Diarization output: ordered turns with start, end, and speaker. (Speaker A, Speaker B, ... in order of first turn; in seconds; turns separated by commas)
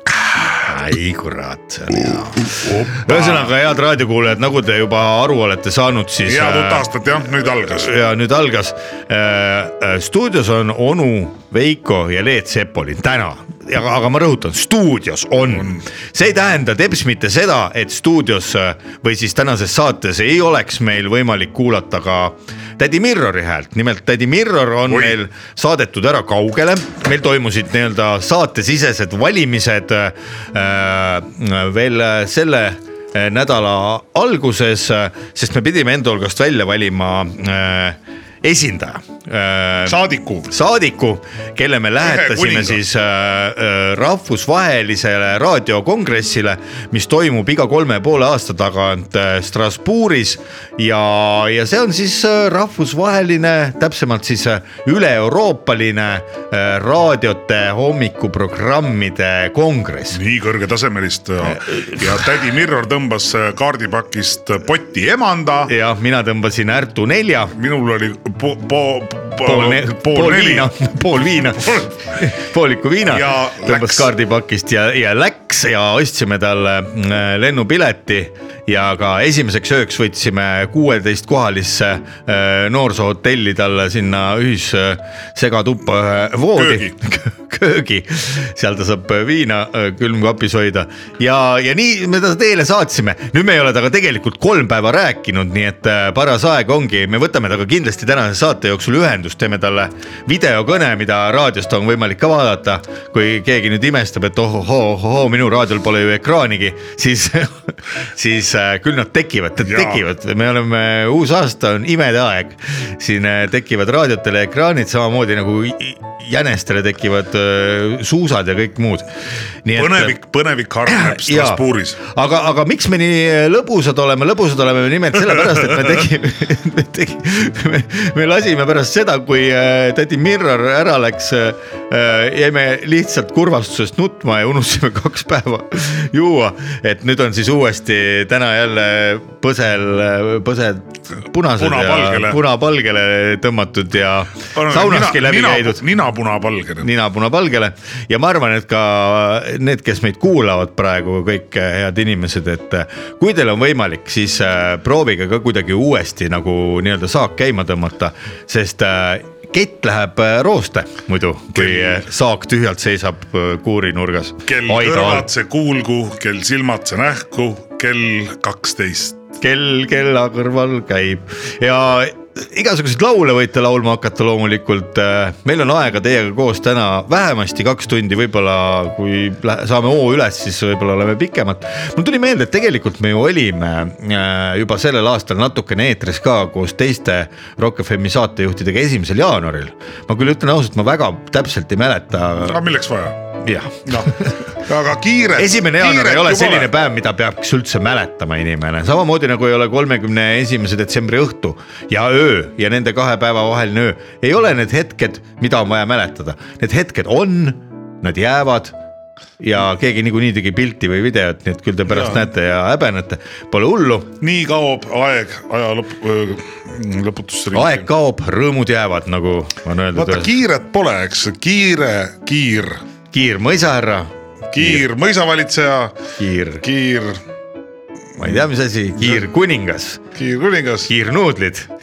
Speaker A: 0.6-6.9, Speaker B: 2.6-3.5, Speaker B: 6.3-7.9, Speaker A: 7.6-60.2, Speaker B: 15.4-15.8, Speaker B: 24.9-25.2, Speaker B: 39.9-40.5, Speaker B: 42.0-42.8, Speaker B: 60.1-65.7, Speaker A: 61.5-62.2, Speaker A: 65.7-67.5, Speaker B: 67.5-70.7, Speaker A: 69.4-119.1, Speaker B: 73.0-74.1, Speaker B: 86.6-86.9, Speaker B: 109.6-110.0, Speaker A: 119.7-120.1, Speaker B: 119.8-122.0, Speaker A: 120.9-145.8, Speaker B: 141.6-142.4, Speaker B: 144.5-146.9, Speaker A: 146.8-165.3, Speaker B: 161.6-162.0, Speaker B: 164.5-169.2, Speaker A: 169.4-192.6, Speaker B: 192.4-193.2, Speaker A: 193.4-194.4, Speaker B: 193.9-196.7, Speaker A: 195.4-208.8, Speaker A: 209.4-214.1, Speaker B: 211.9-212.2, Speaker B: 214.2-217.8, Speaker A: 217.5-220.3, Speaker B: 219.9-222.8, Speaker A: 223.1-224.8, Speaker B: 224.5-226.0, Speaker A: 226.2-226.6, Speaker B: 226.6-227.2, Speaker A: 228.2-230.0, Speaker B: 230.2-230.9, Speaker A: 230.9-231.7